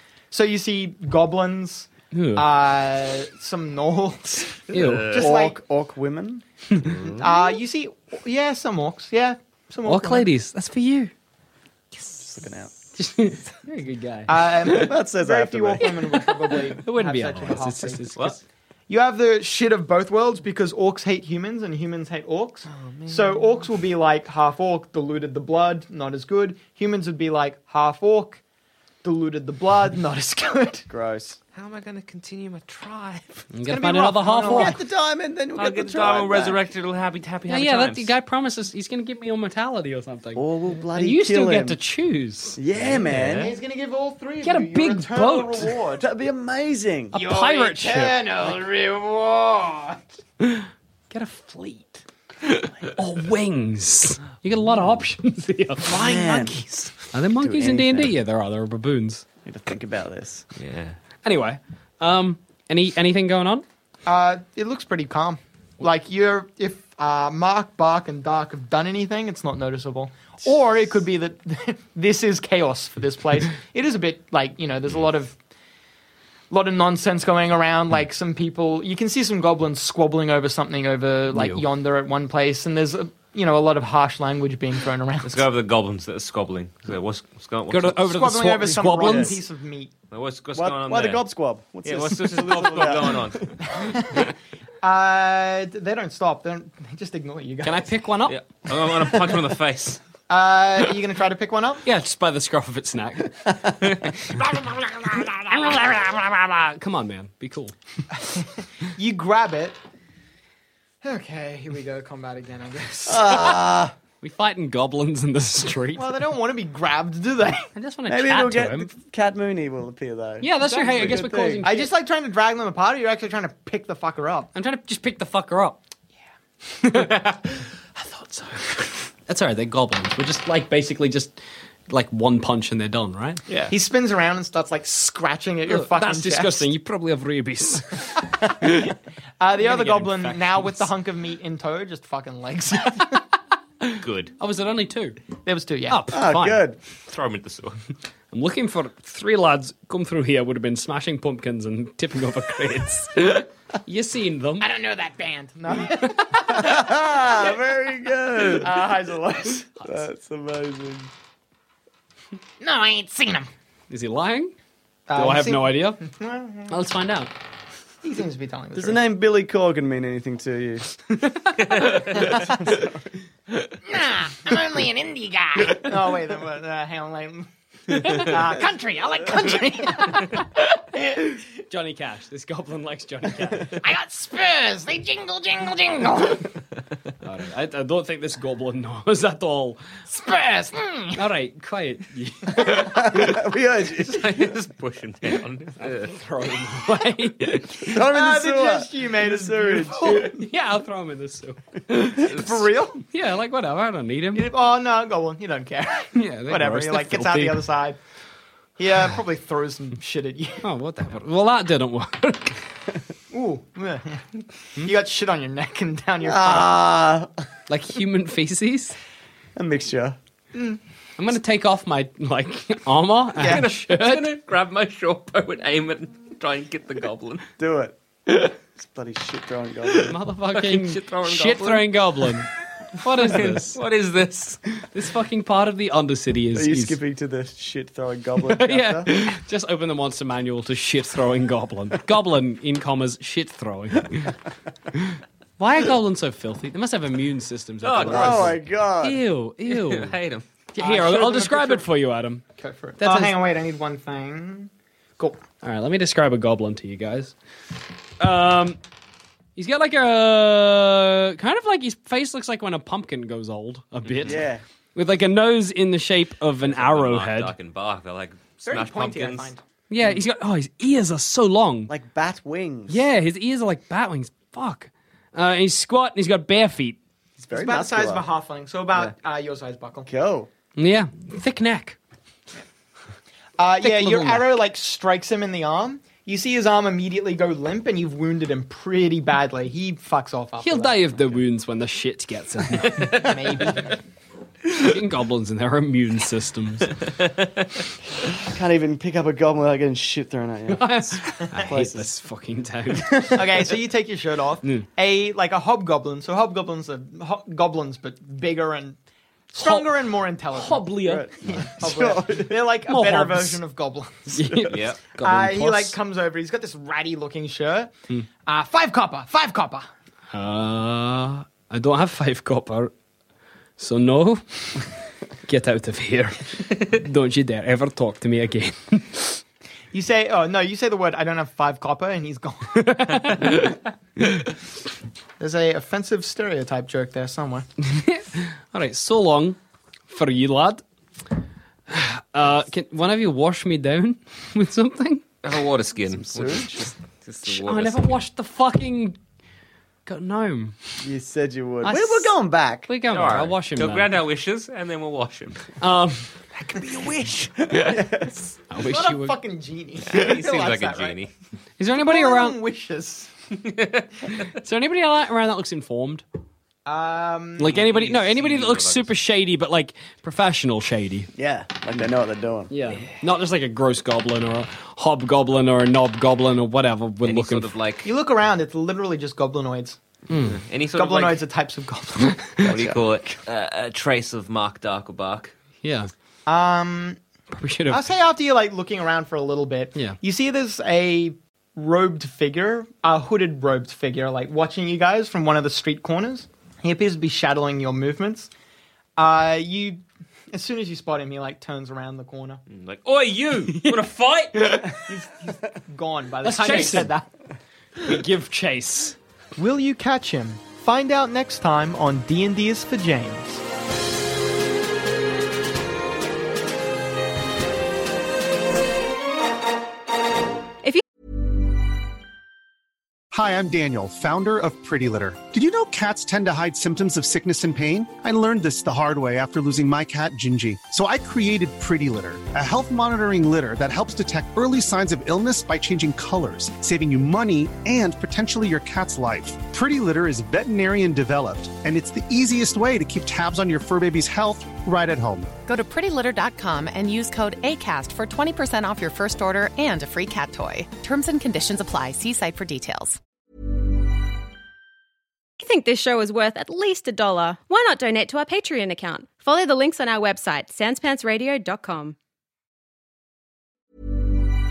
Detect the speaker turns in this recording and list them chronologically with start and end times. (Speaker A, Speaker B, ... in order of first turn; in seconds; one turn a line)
Speaker A: 0.3-5.6
Speaker B: 2.1-2.5
Speaker B: 4.7-5.1
Speaker C: 4.7-5.3
Speaker D: 5.1-7.3
Speaker A: 7.2-10.3
Speaker B: 9.8-11.1
Speaker D: 12.2-12.7
Speaker B: 13.0-14.9
Speaker A: 14.3-18.1
Speaker D: 14.7-15.9
Speaker B: 16.2-18.4
Speaker A: 18.9-28.4
Speaker C: 22.7-23.4
Speaker A: 29.0-30.9
Speaker D: 30.9-31.4
Speaker C: 31.5-33.5
Speaker B: 33.5-34.8
Speaker A: 33.7-34.8
Speaker D: 34.5-36.6
Speaker C: 35.6-38.1
Speaker B: 37.5-42.6
Speaker D: 40.4-41.8
Speaker D: 42.6-43.5
Speaker C: 42.8-43.6
Speaker A: 43.3-46.0
Speaker B: 44.4-45.7
Speaker D: 46.0-47.2
Speaker B: 47.1-48.2
Speaker A: 47.1-50.0
Speaker B: 50.4-52.0
Speaker B: 53.0-56.0
Speaker D: 55.9-56.6
Speaker C: 55.9-57.0
Speaker B: 57.1-59.2
Speaker D: 57.3-58.2
Speaker D: 59.5-60.5
Speaker C: 60.5-61.0
Speaker B: 61.2-63.6
Speaker A: 64.1-75.3
Speaker A: 76.5-85.5
Speaker B: 81.3-81.7
Speaker C: 85.2-88.0
Speaker B: 87.7-89.4
Speaker A: 88.0-89.9
Speaker D: 88.8-89.3
Speaker C: 90.1-91.2
Speaker D: 90.5-93.5
Speaker C: 91.8-93.5
Speaker A: 93.7-94.3
Speaker A: 94.8-97.9
Speaker B: 97.6-98.4
Speaker C: 98.3-100.0
Speaker A: 100.3-101.8
Speaker B: 101.8-103.5
Speaker A: 104.5-105.7
Speaker B: 105.4-107.7
Speaker A: 108.2-109.8
Speaker A: 111.0-113.6
Speaker D: 113.1-114.0
Speaker B: 114.2-116.1
Speaker A: 116.0-117.7
Speaker B: 117.8-118.9
Speaker D: 118.1-121.7
Speaker B: 120.4-121.9
Speaker A: 120.7-124.5
Speaker B: 124.5-125.8
Speaker B: 126.8-127.3
Speaker C: 128.0-128.9
Speaker B: 129.3-131.4
Speaker B: 131.9-133.4
Speaker A: 133.7-136.7
Speaker B: 135.7-138.9
Speaker A: 139.4-143.2
Speaker B: 139.6-140.9
Speaker B: 143.8-145.2
Speaker C: 144.0-144.3
Speaker A: 145.4-146.0
Speaker B: 145.9-146.6
Speaker D: 146.1-146.8
Speaker C: 147.1-147.8
Speaker B: 148.3-154.7
Speaker A: 154.6-157.3
Speaker D: 156.5-158.9
Speaker A: 158.4-159.8
Speaker D: 159.8-161.1
Speaker A: 162.6-163.5
Speaker B: 163.9-164.5
Speaker A: 165.1-166.8
Speaker B: 165.2-166.0
Speaker B: 166.7-167.3
Speaker A: 168.0-169.0
Speaker D: 168.7-170.8
Speaker C: 171.7-172.4
Speaker A: 172.2-172.8
Speaker A: 173.8-180.5
Speaker B: 181.7-183.8
Speaker A: 183.8-186.5
Speaker B: 187.2-189.8
Speaker A: 190.1-191.2
Speaker B: 191.2-193.1
Speaker D: 192.5-194.5
Speaker C: 194.0-196.2
Speaker B: 195.8-198.0
Speaker D: 197.8-200.4
Speaker A: 198.0-200.4
Speaker B: 200.0-202.3
Speaker C: 202.2-202.7
Speaker A: 202.3-203.0
Speaker B: 203.1-204.5
Speaker A: 204.3-208.0
Speaker B: 206.2-207.7
Speaker A: 208.8-210.6
Speaker B: 210.6-212.6
Speaker A: 213.3-214.3
Speaker A: 214.8-216.7
Speaker D: 216.2-217.3
Speaker B: 217.7-219.0
Speaker D: 219.6-220.2
Speaker A: 220.5-220.8
Speaker B: 221.2-224.3
Speaker C: 223.4-227.4
Speaker D: 227.6-228.0
Speaker D: 228.8-230.2
Speaker B: 230.1-233.8
Speaker C: 230.5-232.0
Speaker C: 233.0-234.6
Speaker B: 234.9-237.0
Speaker D: 236.5-239.1
Speaker B: 238.5-244.4
Speaker B: 244.9-250.2
Speaker C: 247.8-248.5
Speaker D: 248.0-249.2
Speaker C: 249.7-250.5
Speaker B: 250.8-252.4
Speaker A: 250.8-251.5
Speaker C: 251.3-251.8
Speaker A: 252.6-255.4
Speaker B: 253.0-253.4
Speaker B: 255.6-257.3
Speaker B: 258.2-258.8
Speaker B: 259.6-267.5
Speaker C: 264.1-264.4
Speaker D: 264.2-264.6
Speaker C: 266.6-269.5
Speaker A: 268.6-269.6
Speaker B: 269.9-271.9
Speaker D: 271.9-273.1
Speaker B: 272.9-277.0
Speaker D: 277.4-278.3
Speaker A: 277.5-280.1
Speaker D: 280.1-280.5
Speaker B: 280.8-282.0
Speaker A: 283.6-291.0
Speaker B: 283.8-284.5
Speaker B: 290.6-293.3
Speaker C: 293.0-293.3
Speaker A: 293.1-294.0
Speaker B: 294.7-296.9
Speaker D: 298.4-302.1
Speaker B: 300.7-303.7
Speaker A: 303.3-309.0
Speaker A: 309.5-311.0
Speaker B: 309.6-309.9
Speaker B: 310.5-311.3
Speaker D: 311.0-312.6
Speaker A: 311.5-314.4
Speaker B: 312.9-313.6
Speaker B: 314.3-316.0
Speaker C: 314.7-315.0
Speaker A: 315.2-317.9
Speaker A: 318.4-319.9
Speaker B: 320.3-322.9
Speaker B: 323.8-324.9
Speaker B: 325.4-329.4
Speaker A: 329.9-333.3
Speaker B: 332.8-334.5
Speaker A: 335.4-337.7
Speaker B: 337.8-339.6
Speaker B: 340.1-340.8
Speaker B: 341.9-345.2
Speaker C: 345.4-348.2
Speaker D: 346.1-346.9
Speaker B: 347.4-349.2
Speaker B: 350.1-350.8
Speaker D: 351.0-352.9
Speaker B: 351.8-352.4
Speaker B: 352.9-354.1
Speaker C: 353.1-355.7
Speaker B: 355.8-356.3
Speaker A: 356.6-357.1
Speaker C: 356.7-357.9
Speaker D: 357.7-358.5
Speaker B: 358.7-359.4
Speaker A: 358.8-361.2
Speaker C: 360.1-361.3
Speaker B: 361.8-362.6
Speaker A: 362.0-363.3
Speaker C: 363.8-364.1
Speaker B: 364.3-366.2
Speaker A: 366.9-367.8
Speaker B: 367.6-371.3
Speaker C: 367.7-369.1
Speaker D: 371.4-372.7
Speaker B: 372.7-377.7
Speaker C: 377.2-378.1
Speaker A: 378.0-380.0
Speaker B: 380.3-380.6
Speaker C: 380.4-381.4
Speaker A: 380.9-382.5
Speaker D: 382.6-383.2
Speaker C: 382.6-385.5
Speaker B: 385.8-386.1
Speaker A: 386.5-387.2
Speaker B: 387.5-388.0
Speaker A: 387.9-398.5
Speaker A: 399.2-402.6
Speaker C: 402.7-405.0
Speaker B: 403.7-404.0
Speaker A: 405.1-407.3
Speaker B: 406.4-407.2
Speaker C: 406.6-407.1
Speaker B: 408.0-409.2
Speaker A: 409.6-413.6
Speaker E: 423.3-445.5
Speaker F: 445.7-453.2
Speaker G: 455.6-462.2